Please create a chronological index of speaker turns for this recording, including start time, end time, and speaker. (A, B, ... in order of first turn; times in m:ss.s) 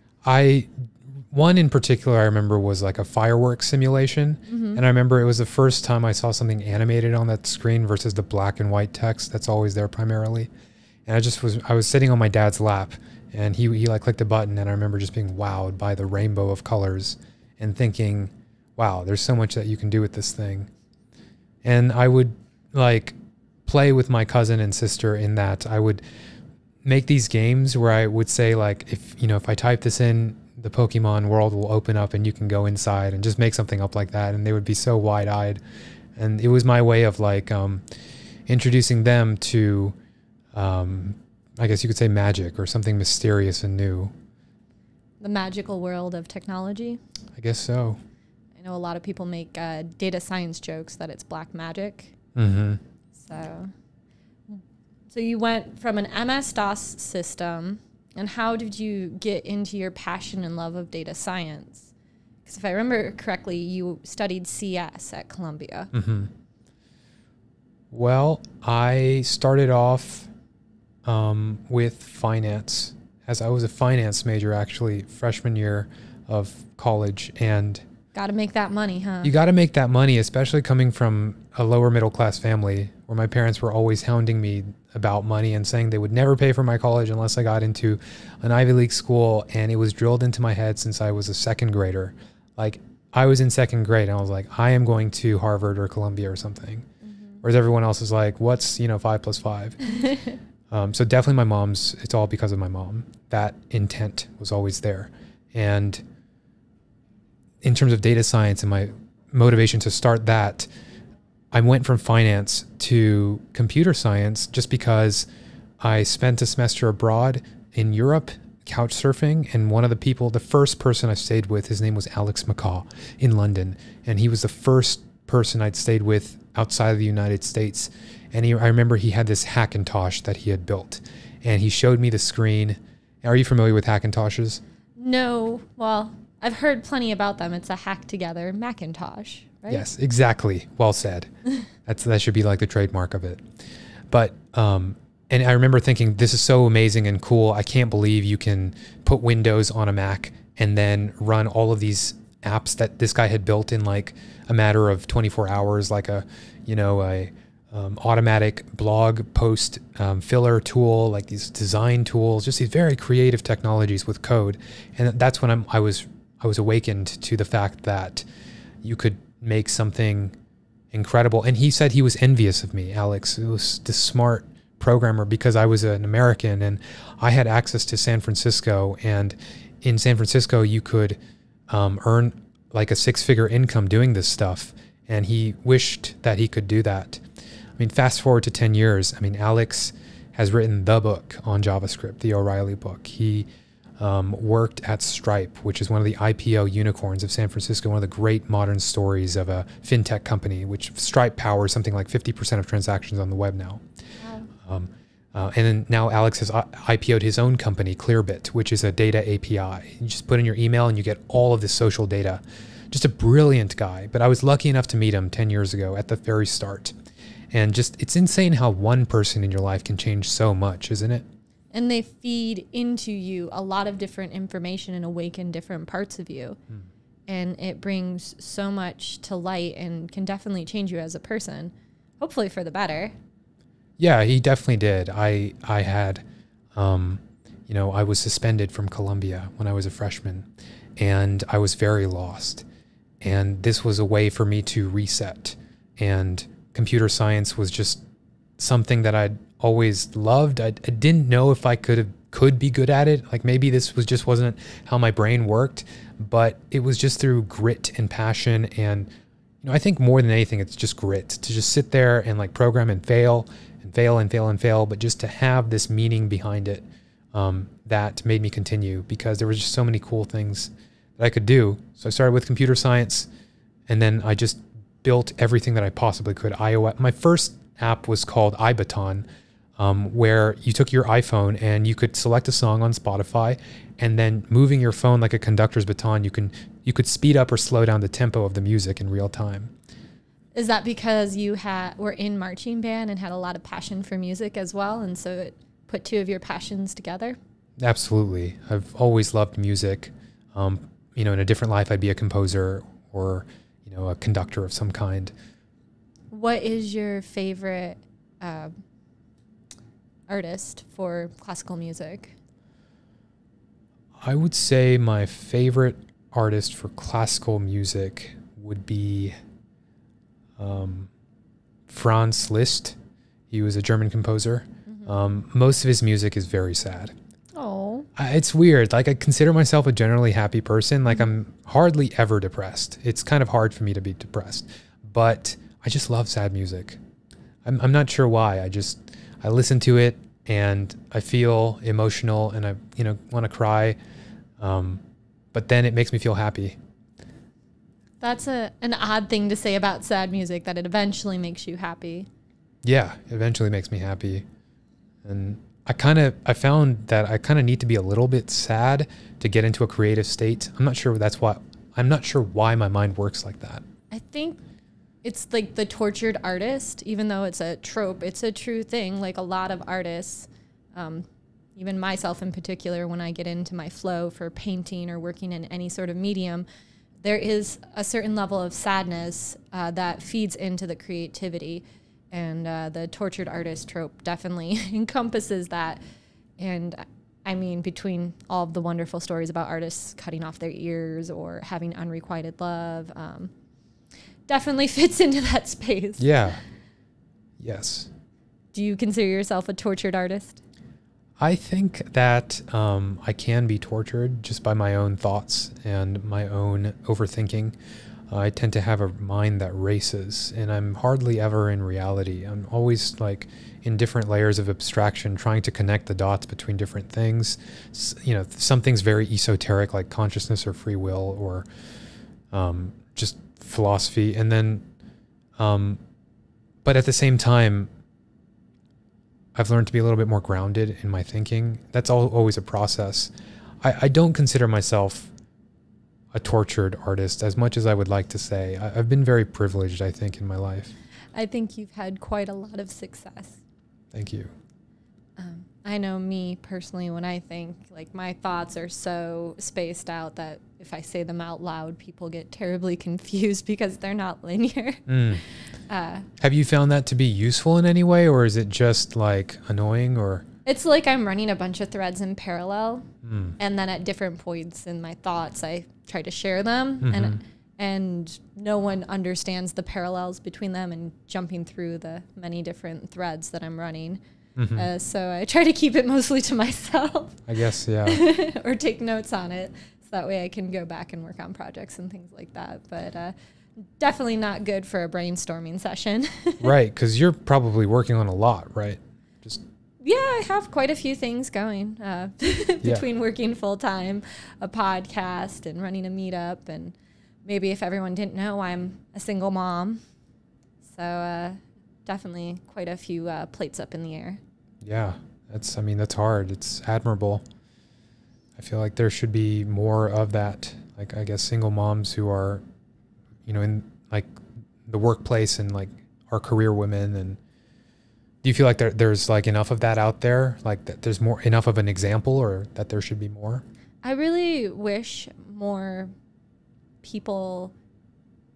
0:00.2-0:00.7 A
0:01.3-0:10.5 A
0:04.5-0:04.8 B
0:11.0-0:20.7 A
0:21.6-0:26.0 A
0:26.8-0:35.6 A
0:36.2-0:37.8 A
0:38.5-0:39.9 A
0:40.5-0:44.1 A
0:45.2-0:47.0 B
0:47.4-0:48.0 A
0:48.6-0:52.1 B
0:52.4-0:52.8 A
0:53.1-0:53.7 B
0:55.1-1:01.9 B
1:02.4-1:05.9 B
1:05.9-1:06.3 A
1:07.9-1:10.3 A
1:11.0-1:17.8 A
1:18.1-1:19.3 B
1:19.2-1:36.8 A
1:37.0-1:37.4 B
1:37.4-1:39.9 A
1:40.7-1:46.0 A
1:47.6-1:50.7 A
1:51.5-1:55.3 A
1:55.8-2:14.6 A
2:15.0-2:19.8 B
2:19.7-2:21.3 A
2:21.8-2:23.4 A
2:24.1-2:48.2 A
2:48.8-2:50.3 A
2:50.9-3:01.2 A
3:01.7-3:07.2 A
3:07.8-3:13.5 A
3:14.0-3:23.8 A
3:24.2-3:24.5 B
3:24.6-3:36.9 A
3:37.5-3:41.2 A
3:41.7-3:46.6 B
3:47.3-3:53.1 B
3:54.0-3:56.2 A
3:56.7-4:00.5 A
4:01.0-4:02.6 A
4:03.2-4:08.0 A
4:08.6-4:19.1 A
4:19.6-4:33.3 A
4:33.9-4:39.2 A
4:39.8-4:49.7 A
4:50.5-4:57.4 B
4:57.8-5:05.3 A
5:06.3-5:08.7 B
5:10.3-5:12.3 B
5:14.2-5:19.3 A
5:20.6-5:21.1 A
5:21.9-5:23.0 A
5:23.5-5:27.1 A
5:24.9-5:25.1 B
5:27.5-5:28.1 B
5:28.2-5:37.0 A
5:37.6-5:44.0 A
5:44.6-5:45.0 A
5:45.5-5:46.8 A
5:48.2-5:52.3 B
5:52.8-5:54.4 A
5:55.2-6:03.8 A
6:04.1-6:04.6 B
6:05.2-6:16.6 B
6:17.2-6:26.0 B
6:26.6-6:33.5 B
6:34.5-6:36.2 B
6:36.2-6:36.6 A
6:37.6-6:38.1 A
6:38.7-6:40.6 B
6:41.4-6:47.7 A
6:48.3-7:01.6 A
7:02.5-7:04.8 A
7:05.6-7:06.0 A
7:06.8-7:07.9 A
7:09.6-7:13.3 A
7:13.8-7:15.3 A
7:16.3-7:20.9 A
7:21.3-7:23.6 B
7:24.1-7:24.5 A
7:25.4-7:35.0 B
7:35.1-7:35.4 A
7:35.9-7:36.3 B
7:36.4-7:40.4 A
7:40.6-7:43.1 B
7:43.2-7:43.6 A
7:43.6-7:54.2 B
7:47.0-7:47.4 A
7:54.6-7:54.9 A
7:54.7-7:57.4 B
7:57.5-7:58.2 A
7:58.0-8:03.3 B
8:04.0-8:06.7 B
8:06.6-8:09.6 A
8:10.0-8:20.0 B
8:20.9-8:24.4 B
8:24.8-8:27.4 A
8:28.6-8:32.6 A
8:33.4-8:34.3 A
8:34.9-8:37.4 A
8:38.4-8:43.6 A
8:44.0-8:46.1 B
8:47.0-8:47.7 B